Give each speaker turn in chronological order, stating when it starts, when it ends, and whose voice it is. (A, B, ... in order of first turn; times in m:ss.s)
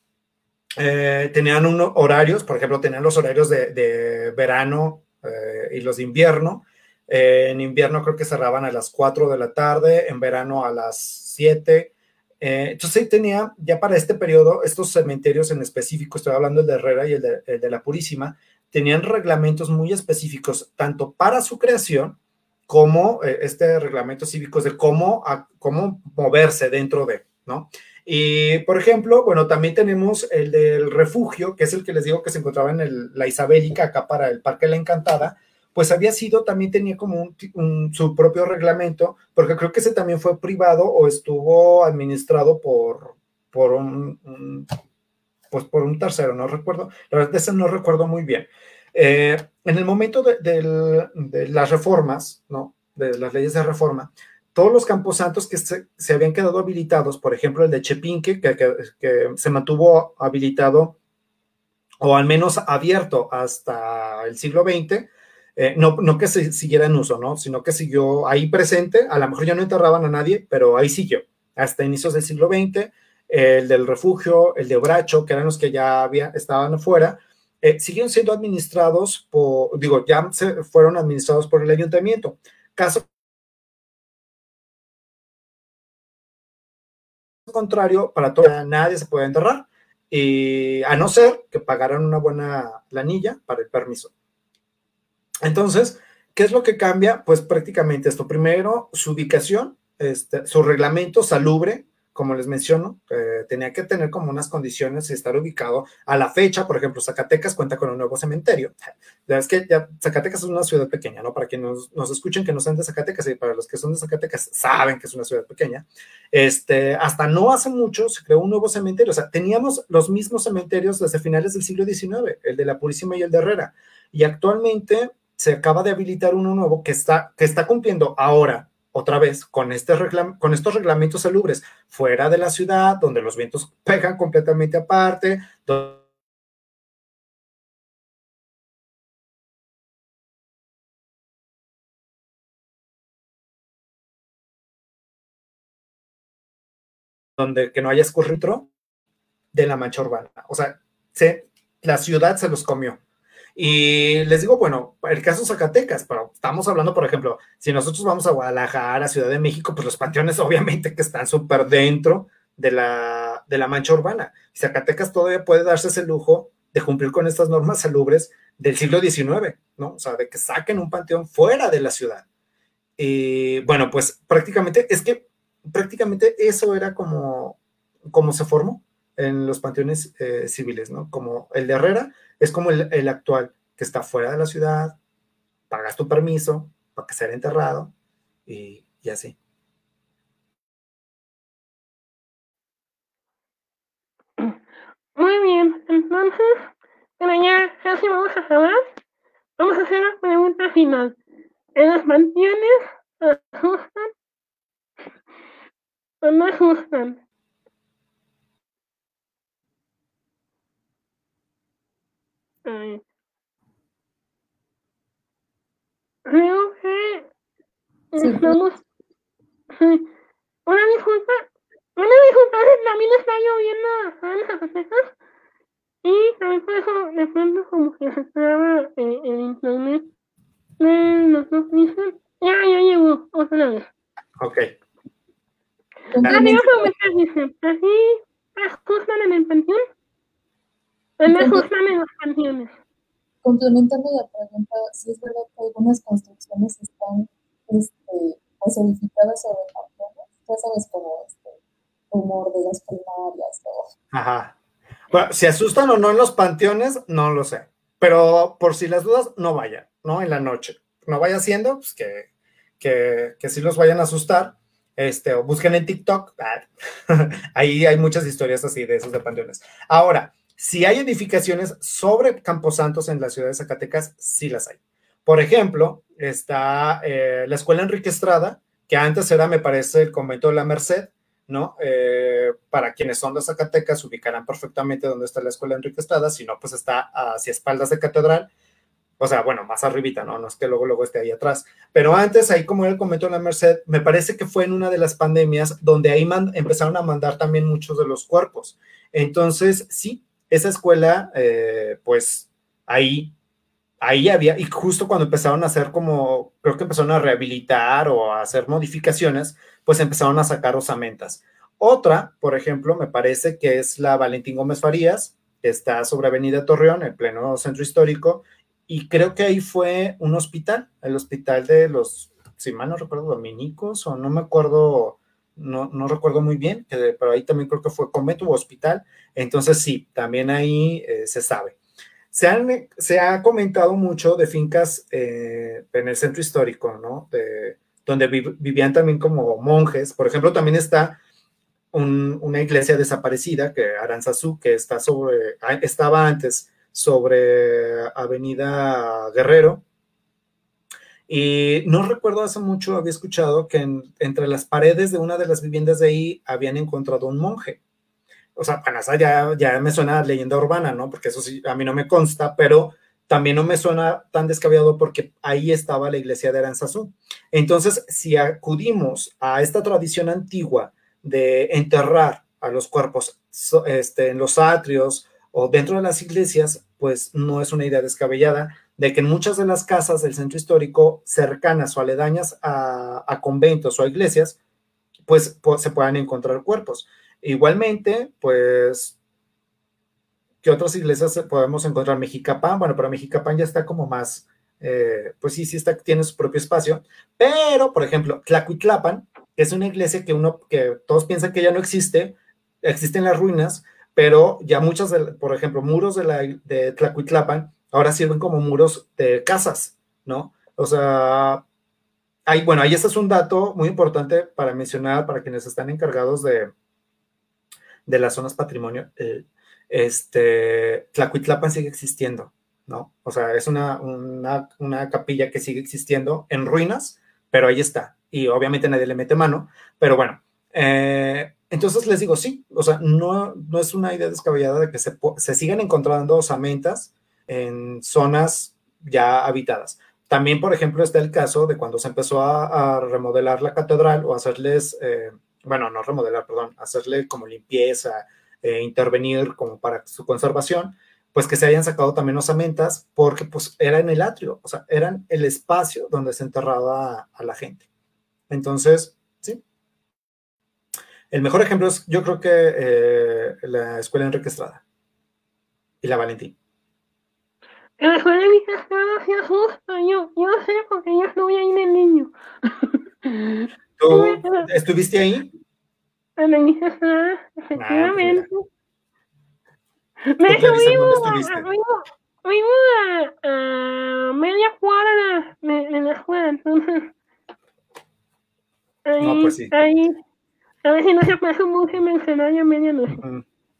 0:00.8-0:22.2 A
0:22.7-0:44.7 A
0:45.5-1:01.0 A
1:02.0-1:23.1 A
1:27.5-1:34.1 A
1:35.4-2:16.0 A
2:27.4-2:28.7 A
2:29.5-2:33.0 A
2:33.5-2:52.2 A
2:53.0-2:57.6 A
2:58.1-3:05.0 A
3:05.7-3:07.9 A
3:08.5-3:09.4 A
3:15.2-3:18.8 B
3:19.6-3:21.2 B
3:21.8-3:24.1 B
3:26.2-3:27.2 B
3:32.6-3:33.0 B
3:36.3-3:37.3 B
3:38.1-3:38.8 B
3:38.2-3:38.6 C
3:39.7-3:40.1 B
3:40.7-3:45.1 B
3:46.0-3:50.1 B
3:50.8-3:53.9 B
3:54.4-3:54.7 A
3:56.1-3:56.9 C
3:56.2-3:56.5 A
3:56.2-3:59.8 B
4:01.2-4:02.7 B
4:01.3-4:01.7 C
4:03.4-4:11.6 C
4:12.1-4:13.9 C
4:14.1-4:14.6 A
4:15.1-4:22.3 A
4:22.8-4:48.5 A
4:49.2-5:03.3 A
5:04.0-5:31.8 A
5:32.3-5:41.2 A
5:41.9-5:49.8 A
5:51.3-5:57.8 A
5:58.6-6:24.6 A
6:25.2-6:29.2 A
6:30.6-6:51.6 A
6:52.4-6:56.7 A
6:58.0-7:37.8 A
7:38.5-7:39.6 A
7:41.3-7:44.8 A
7:46.0-7:46.5 A
7:48.0-7:54.7 B
7:54.0-7:55.5 A
7:56.4-7:58.6 B
7:57.8-7:58.4 A
8:00.3-8:07.1 B
8:00.4-8:01.7 A
8:09.0-8:10.2 B
8:09.2-8:09.7 A
8:10.8-8:13.2 B